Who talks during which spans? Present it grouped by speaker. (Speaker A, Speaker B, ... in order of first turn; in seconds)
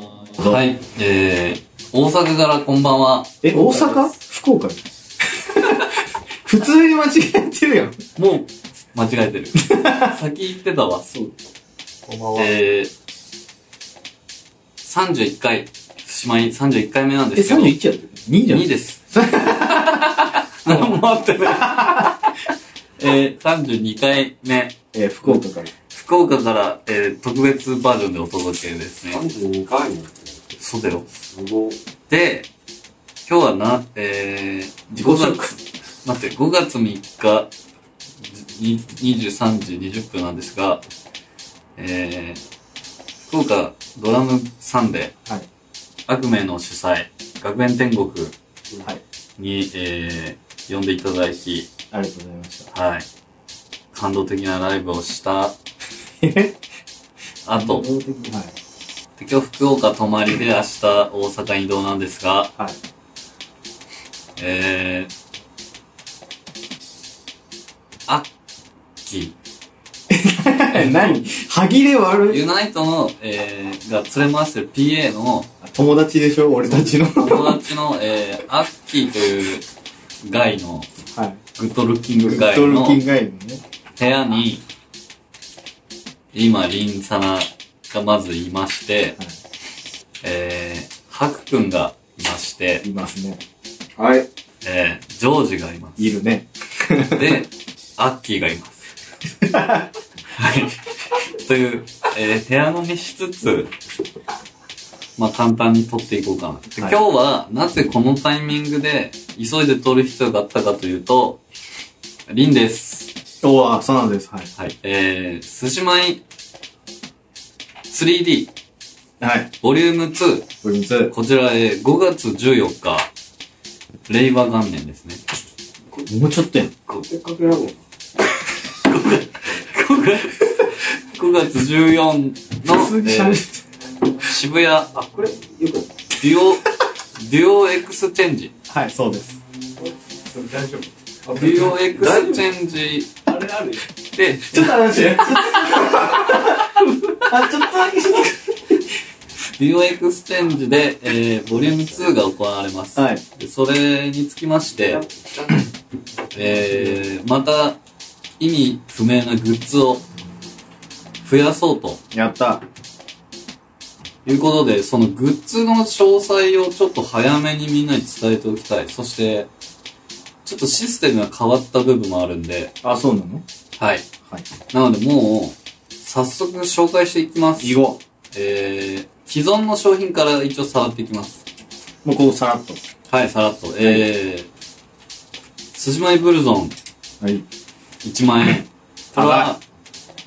Speaker A: 0.4-3.4, 8.2-11.1, 12.3-12.9, 14.8-17.8, 18.5-19.0, 19.6-22.3, 23.0-24.7, 25.9-29.2, 30.6-31.1, 32.1-32.5, 33.2-35.4, 36.0-37.5, 38.3-40.8, 41.8-42.4, 43.3-45.1, 46.1-48.4, 49.4-51.7, 52.7-53.1, 53.9-55.5, 57.5-57.9, 59.2-62.5, 64.4-65.1, 69.0-69.3, 70.7-71.2, 72.3-75.5, 77.1-79.7, 80.2-80.9, 81.5-83.0, 84.0-84.6, 86.3-89.2, 90.2-92.8, 94.6-96.2, 97.1-98.9, 100.3-103.7, 105.2-111.4, 112.3-113.1, 114.6-116.2, 117.9-118.5, 119.6-120.5, 121.1-123.1, 124.1-125.2, 128.8-133.4, 134.2-134.9, 136.2-138.5, 141.3-143.1, 144.1-146.0, 146.8-147.2, 149.6-155.0, 156.3-157.8, 158.4-160.0, 161.2-162.0, 164.2-169.5, 170.4-172.7, 173.8-174.1, 174.7-177.8, 178.3-181.4, 183.1-184.5, 185.7-186.8, 188.0-189.6
Speaker B: 3.4-8.0, 9.6-10.2, 17.4-20.0, 20.7-20.9, 21.5-22.1, 24.9-25.7, 34.9-35.6, 51.9-52.7, 56.2-56.6, 57.6-58.5, 70.1-72.4, 75.6-77.6, 81.1-81.4, 82.2-83.6, 92.8-93.4, 94.0-94.2, 96.0-97.4, 99.4-99.9, 113.4-114.5, 119.2-119.5, 120.6-121.1, 125.9-126.7, 132.7-133.6, 138.7-139.4, 144.5-146.7, 147.3-148.8, 152.9-153.2, 162.1-162.6, 172.8-173.4, 177.6-178.0, 182.0-182.8, 183.8-184.1, 189.1-189.5
Speaker C: 3.5-4.1, 12.1-12.6, 29.1-30.3, 31.2-31.8, 126.9-127.8, 134.9-135.9, 139.8-142.4, 143.2-143.8, 154.8-155.7, 156.3-157.0